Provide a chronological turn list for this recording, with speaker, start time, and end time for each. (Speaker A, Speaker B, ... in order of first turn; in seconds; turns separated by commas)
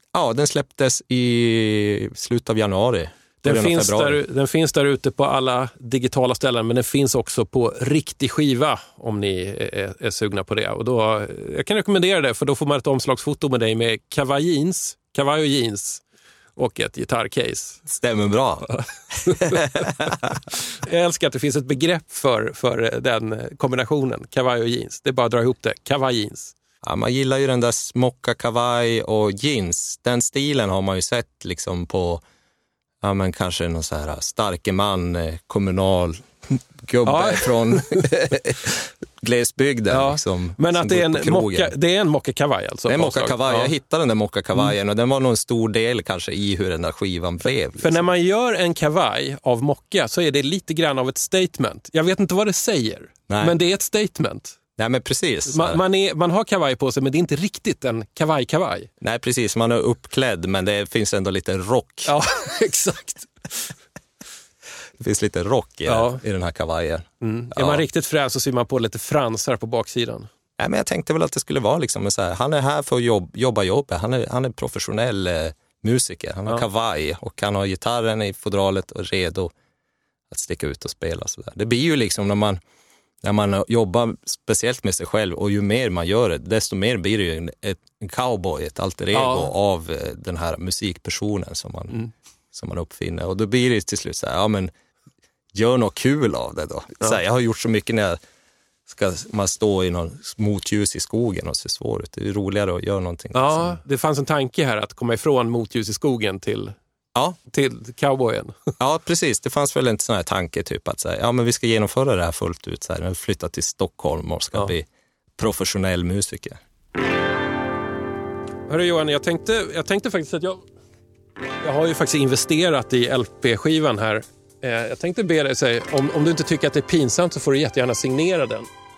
Speaker A: 0.1-4.2, Speaker B: 3.4-16.0, Speaker B: 16.6-17.8, Speaker A: 17.9-20.1, Speaker B: 18.7-26.5, Speaker A: 26.8-32.2, Speaker A: 33.0-41.7, Speaker B: 37.0-38.0, Speaker B: 39.9-43.7, Speaker A: 42.9-48.1, Speaker B: 47.8-54.6, Speaker A: 53.3-53.6, Speaker A: 54.8-55.8, Speaker B: 55.5-58.9, Speaker A: 59.0-62.1, Speaker B: 62.1-63.7, Speaker A: 65.0-67.8, Speaker B: 65.9-66.2, Speaker B: 67.2-70.3, Speaker A: 70.6-79.5, Speaker A: 80.3-82.6, Speaker A: 83.2-94.7, Speaker B: 89.1-89.5, Speaker A: 95.5-98.2, Speaker A: 98.9-103.8, Speaker B: 103.3-106.8, Speaker B: 107.5-108.5, Speaker A: 108.8-116.6, Speaker B: 118.7-120.6, Speaker B: 121.6-128.7